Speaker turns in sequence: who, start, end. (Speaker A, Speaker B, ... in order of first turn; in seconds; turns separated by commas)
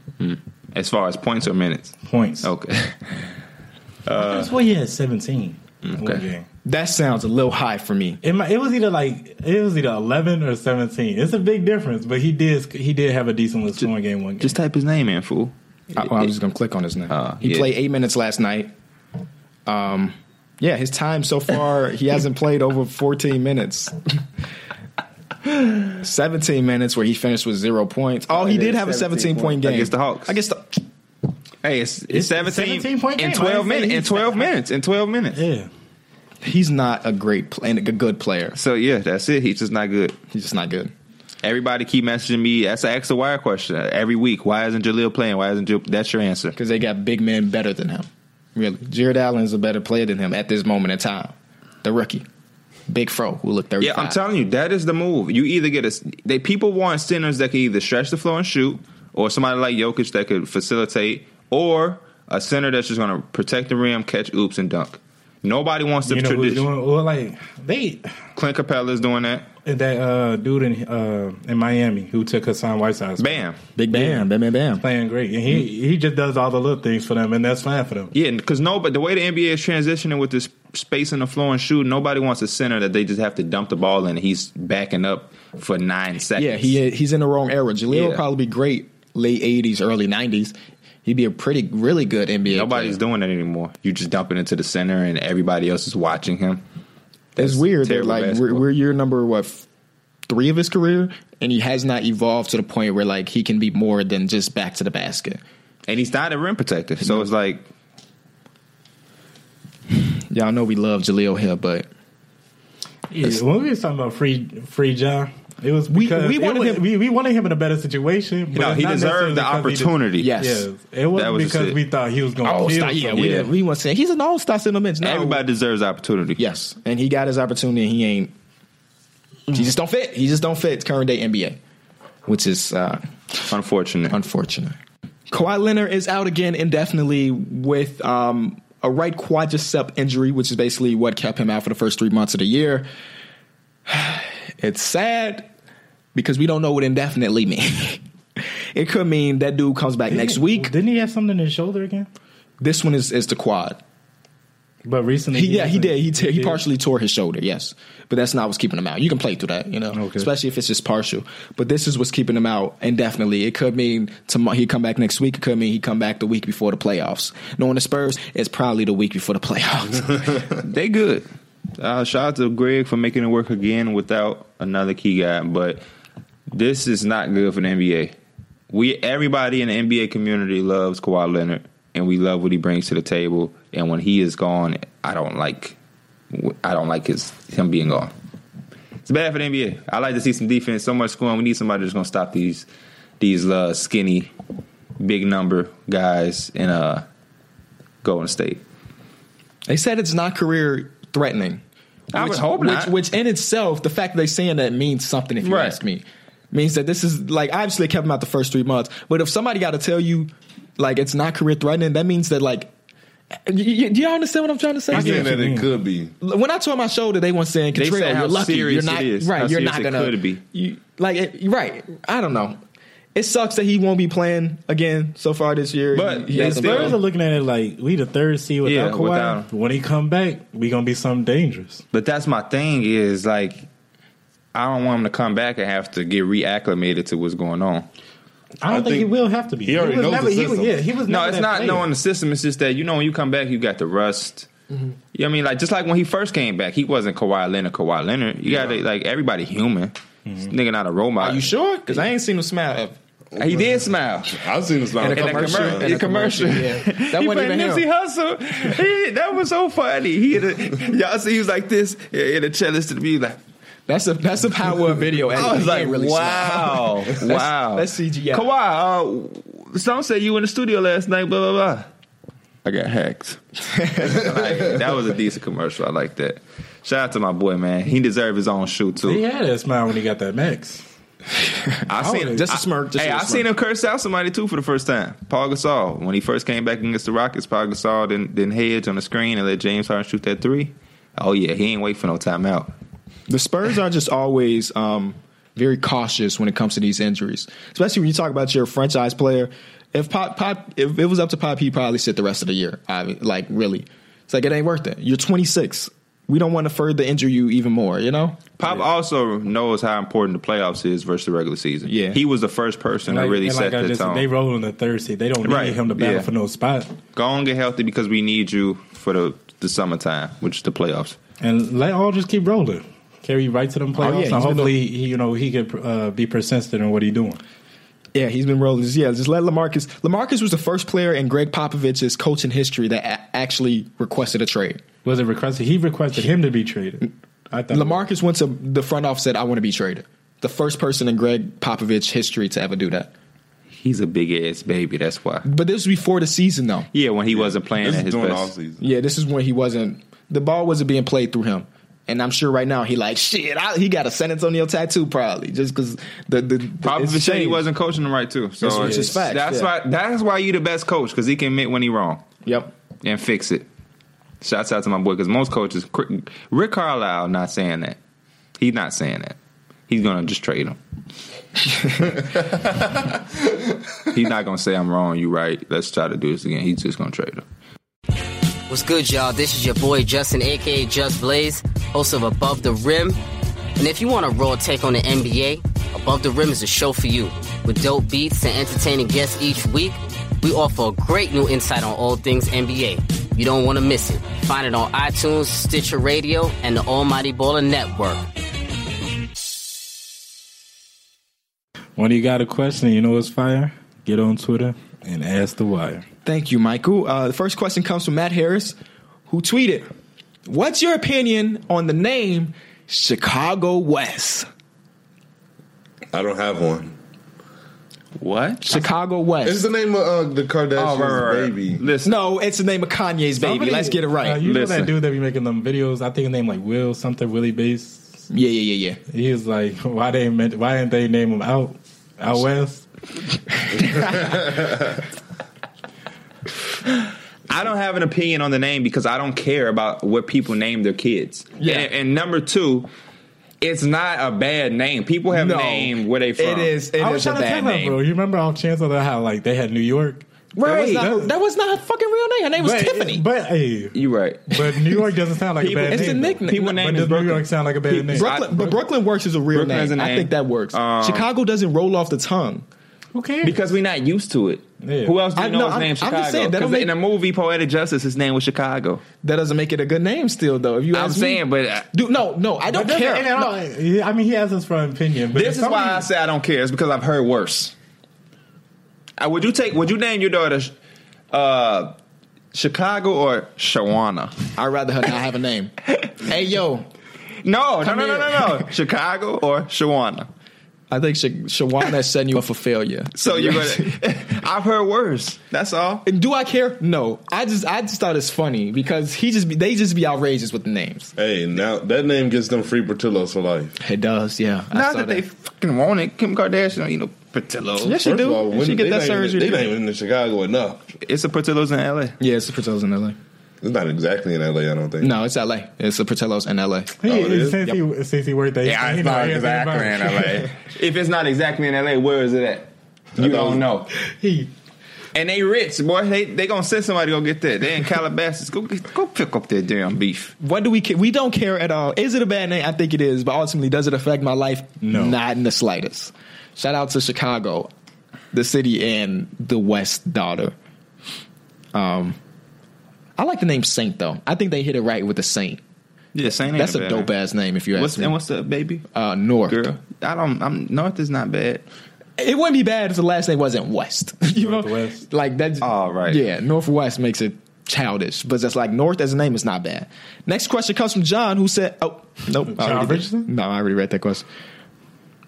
Speaker A: 0.7-3.3, Speaker B: 2.1-2.5, Speaker A: 4.1-4.5, Speaker B: 4.1-6.5, Speaker A: 5.8-6.2, Speaker C: 6.7-8.2, Speaker B: 8.2-14.6, Speaker A: 14.4-16.3, Speaker C: 15.9-18.7, Speaker A: 17.1-17.7, Speaker C: 19.7-24.2, Speaker C: 25.4-30.8, Speaker A: 28.3-30.4, Speaker A: 31.6-35.4, Speaker B: 32.1-34.5, Speaker B: 35.3-35.7, Speaker C: 36.4-38.6, Speaker A: 38.5-40.2, Speaker C: 40.3-40.9, Speaker A: 41.4-46.5, Speaker C: 46.5-52.2, Speaker C: 52.9-54.2, Speaker A: 53.8-66.7, Speaker B: 66.1-68.1, Speaker A: 68.3-69.5, Speaker B: 69.7-74.3, Speaker A: 73.2-73.6, Speaker C: 73.8-74.8, Speaker B: 74.8-78.1, Speaker A: 78.1-86.8, Speaker C: 86.3-93.0, Speaker A: 87.9-88.2, Speaker A: 92.5-96.6, Speaker C: 97.4-99.7, Speaker A: 97.4-98.6, Speaker C: 100.3-105.4, Speaker A: 105.9-107.6, Speaker C: 110.1-111.9, Speaker B: 113.1-123.4, Speaker C: 115.9-116.8, Speaker A: 118.5-120.3, Speaker C: 120.2-120.7, Speaker A: 121.1-121.8, Speaker C: 122.4-125.4, Speaker A: 123.2-123.5, Speaker A: 125.0-126.4, Speaker C: 126.4-128.3, Speaker C: 129.5-131.6, Speaker C: 132.3-133.1, Speaker A: 133.5-134.2, Speaker C: 134.1-134.8, Speaker C: 135.3-142.9, Speaker C: 143.9-145.5, Speaker C: 146.2-150.7, Speaker B: 150.1-152.1, Speaker C: 152.6-153.8, Speaker B: 154.8-156.6, Speaker C: 155.3-170.5, Speaker B: 159.9-160.3, Speaker A: 170.6-171.3, Speaker A: 171.8-175.8, Speaker A: 176.5-178.1, Speaker A: 178.7-185.8, Speaker A: 186.3-188.1, Speaker A: 189.1-192.7, Speaker A: 193.2-194.3, Speaker A: 195.0-197.1, Speaker A: 198.0-198.6, Speaker C: 199.7-201.6, Speaker A: 202.1-202.9, Speaker C: 202.1-212.7, Speaker A: 205.4-205.8, Speaker C: 213.5-215.3, Speaker B: 214.9-215.7, Speaker D: 214.9-216.1, Speaker C: 216.2-222.6, Speaker A: 217.8-220.4, Speaker C: 223.2-227.0, Speaker A: 225.9-227.0, Speaker B: 226.3-231.8, Speaker A: 228.6-229.5, Speaker A: 231.9-233.7, Speaker A: 234.5-237.9, Speaker B: 238.6-241.9, Speaker D: 238.7-240.8, Speaker A: 241.1-244.5, Speaker A: 245.1-252.0, Speaker C: 251.2-253.0, Speaker D: 253.4-256.0, Speaker A: 253.4-254.4, Speaker C: 255.0-257.9, Speaker A: 255.1-263.4, Speaker C: 263.9-268.5, Speaker A: 265.3-271.9, Speaker A: 272.6-273.4, Speaker C: 273.8-274.2, Speaker A: 273.9-279.2, Speaker B: 279.0-280.8, Speaker C: 281.7-283.5, Speaker A: 281.9-292.7, Speaker B: 282.0-282.4, Speaker C: 293.3-308.4, Speaker A: 308.6-314.2, Speaker C: 311.9-312.2, Speaker B: 313.1-316.9, Speaker A: 315.4-316.3, Speaker A: 317.1-321.2, Speaker B: 321.4-327.4, Speaker C: 324.0-324.8, Speaker C: 328.1-334.8, Speaker B: 335.1-338.1, Speaker C: 337.7-343.1, Speaker A: 343.7-345.5, Speaker C: 345.4-346.9, Speaker A: 346.9-348.5, Speaker D: 347.3-348.8, Speaker C: 348.8-357.6, Speaker A: 356.8-362.2, Speaker C: 358.6-359.7, Speaker B: 358.7-359.2, Speaker C: 362.4-362.7, Speaker A: 363.0-363.7, Speaker A: 364.4-368.0, Speaker A: 368.6-369.4, Speaker A: 369.9-370.8, Speaker A: 374.1-377.4, Speaker E: 378.7-383.2, Speaker E: 383.8-398.3, Speaker B: 402.0-406.1, Speaker C: 406.2-408.8, Speaker C: 409.3-409.9, Speaker C: 410.5-414.5, Speaker D: 416.1-416.9, Speaker A: 418.2-418.8, Speaker C: 418.6-419.6, Speaker D: 419.4-421.8, Speaker A: 420.8-422.1, Speaker C: 422.0-424.4, Speaker B: 423.4-428.2, Speaker A: 424.4-424.9, Speaker C: 428.3-429.0, Speaker B: 429.1-432.9, Speaker D: 434.2-434.7, Speaker A: 437.5-442.9, Speaker C: 441.6-441.9, Speaker A: 443.6-446.7, Speaker C: 445.3-448.0, Speaker B: 447.0-450.2, Speaker C: 450.6-453.2, Speaker A: 450.6-451.1, Speaker B: 450.9-451.3, Speaker B: 452.6-454.0, Speaker A: 453.9-454.6, Speaker B: 454.5-458.3, Speaker A: 455.6-458.8, Speaker C: 455.9-456.9, Speaker C: 458.1-462.7, Speaker A: 459.5-461.3, Speaker B: 463.1-463.6, Speaker A: 463.4-469.0, Speaker B: 464.8-465.1, Speaker C: 465.4-466.9, Speaker C: 469.2-473.5, Speaker A: 470.9-471.9, Speaker B: 472.7-476.1, Speaker A: 475.3-477.7, Speaker A: 479.2-480.7, Speaker A: 481.3-482.0, Speaker A: 482.5-484.5, Speaker C: 484.6-486.9, Speaker A: 487.4-490.3, Speaker C: 487.8-488.7, Speaker C: 490.9-494.0, Speaker A: 493.2-496.1, Speaker C: 496.1-501.1, Speaker D: 501.2-503.8, Speaker C: 503.8-505.2, Speaker A: 504.7-508.0, Speaker C: 507.8-509.7, Speaker D: 508.0-510.8, Speaker A: 511.0-512.2, Speaker C: 512.2-513.2, Speaker D: 513.6-515.1, Speaker C: 515.0-517.0, Speaker B: 517.0-520.5, Speaker D: 517.0-517.7, Speaker A: 518.6-523.9, Speaker D: 523.2-523.7, Speaker B: 524.2-524.5, Speaker A: 525.1-530.3, Speaker C: 530.4-537.7, Speaker B: 534.8-535.2, Speaker C: 538.3-540.5, Speaker C: 541.7-542.2, Speaker C: 543.2-545.6, Speaker A: 546.1-547.1, Speaker C: 546.5-548.1, Speaker A: 547.8-548.9, Speaker C: 548.9-549.7, Speaker A: 549.5-551.6, Speaker C: 552.2-564.2, Speaker B: 554.4-555.0, Speaker A: 555.6-556.2, Speaker B: 562.5-563.3